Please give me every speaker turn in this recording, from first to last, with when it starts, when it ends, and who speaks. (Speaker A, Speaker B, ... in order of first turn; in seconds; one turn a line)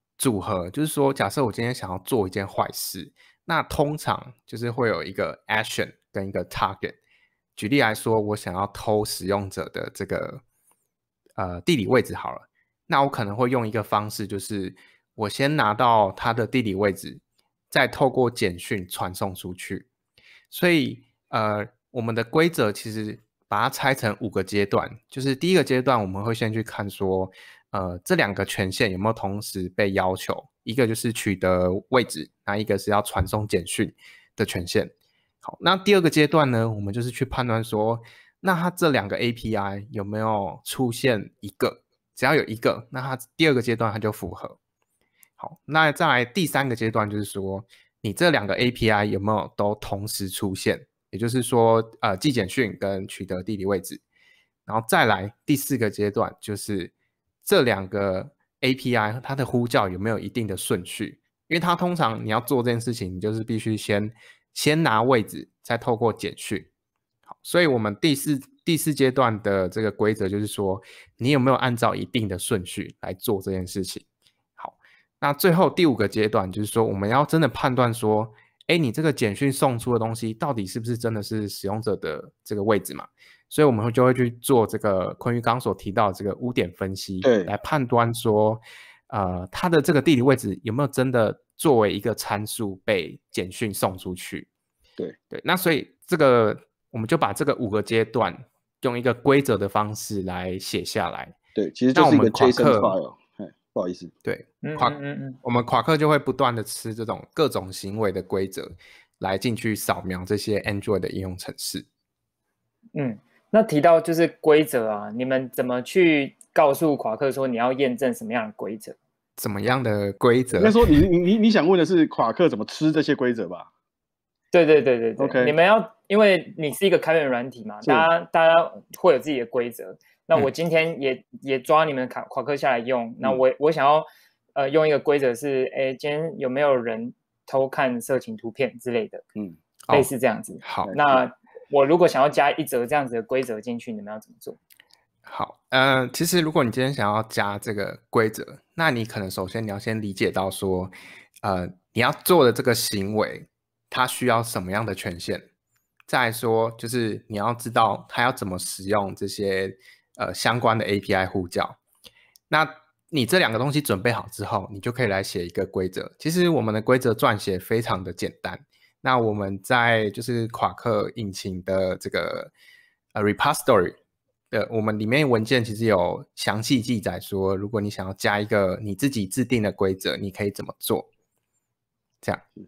Speaker A: 0.2-7.0
Speaker A: 7.5-10.4
Speaker A: 11.3-19.9
Speaker A: 20.5-34.9
Speaker A: 35.4-44.6
Speaker A: 45.4-54.0
Speaker A: 54.6-56.9
Speaker A: 57.4-66.7
Speaker A: 67.3-74.0
Speaker A: 74.6-94.5
Speaker B: 87.2-87.5
Speaker A: 95.3-101.3
Speaker B: 101.5-104.1
Speaker A: 101.9-103.0
Speaker A: 104.2-111.8
Speaker C: 104.6-105.4
Speaker C: 112.9-119.0
Speaker A: 119.4-120.9
Speaker B: 120.5-123.7
Speaker C: 124.5-139.2
Speaker B: 125.2-125.5
Speaker B: 127.8-128.1
Speaker C: 139.9-144.6
Speaker A: 140.6-140.9
Speaker A: 145.2-150.9
Speaker A: 151.4-155.4
Speaker A: 156.1-161.8
Speaker A: 162.5-172.5
Speaker A: 173.1-174.0
Speaker A: 174.5-181.1